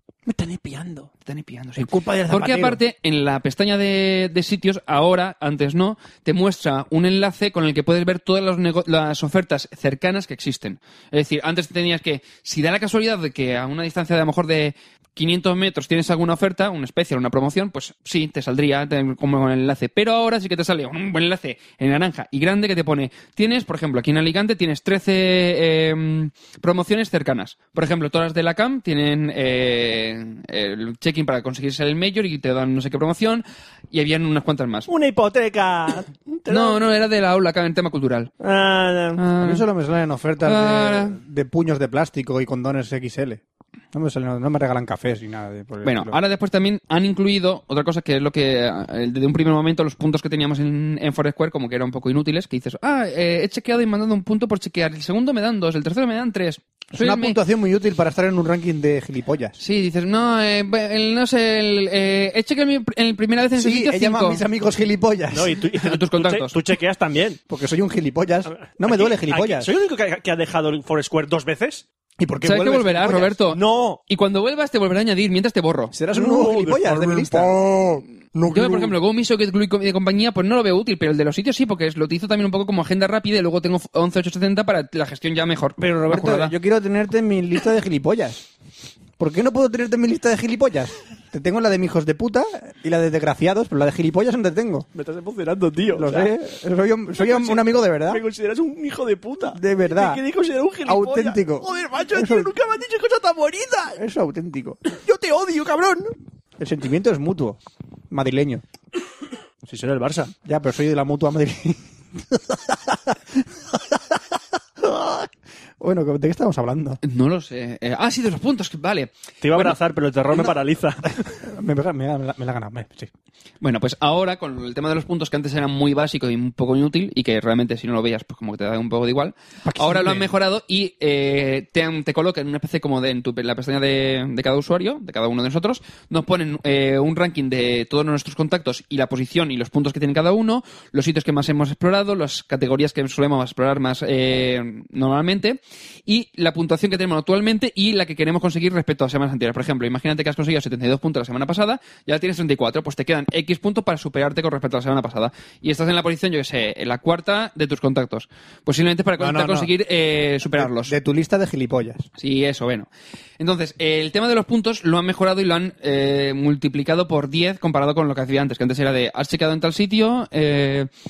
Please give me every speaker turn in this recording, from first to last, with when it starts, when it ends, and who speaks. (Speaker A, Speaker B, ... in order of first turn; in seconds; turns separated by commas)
Speaker A: 0.3-1.1, Speaker B: 1.2-34.9, Speaker A: 1.8-2.8, Speaker C: 34.9-36.9, Speaker B: 36.5-38.3, Speaker C: 38.4-39.2, Speaker B: 39.1-39.6, Speaker A: 39.4-43.4, Speaker B: 40.4-41.2, Speaker A: 43.9-46.2, Speaker B: 45.8-57.4, Speaker A: 56.9-59.6, Speaker B: 59.6-64.4, Speaker A: 63.6-65.6, Speaker C: 65.3-67.4, Speaker B: 65.8-66.6, Speaker A: 67.5-69.7, Speaker C: 68.5-71.8, Speaker A: 72.2-73.3, Speaker B: 72.4-75.9, Speaker C: 73.5-74.0, Speaker A: 75.9-78.8, Speaker C: 76.1-78.8, Speaker B: 78.5-86.5, Speaker A: 85.8-88.5, Speaker A: 89.2-94.9, Speaker C: 94.9-96.3, Speaker A: 95.9-98.2, Speaker C: 97.2-104.0, Speaker A: 99.5-100.2, Speaker A: 100.8-102.5, Speaker A: 103.9-104.8, Speaker C: 104.9-106.1, Speaker A: 106.6-107.6, Speaker A: 108.1-108.6, Speaker C: 109.7-110.3, Speaker A: 110.4-114.2, Speaker A: 114.8-117.0, Speaker B: 117.0-119.8, Speaker C: 119.4-121.1, Speaker A: 121.2-123.1, Speaker B: 123.6-160.9, Speaker A: 129.6-130.3, Speaker A: 159.2-159.7, Speaker A: 160.5-162.1, Speaker B: 162.2-162.9, Speaker B: 163.4-170.9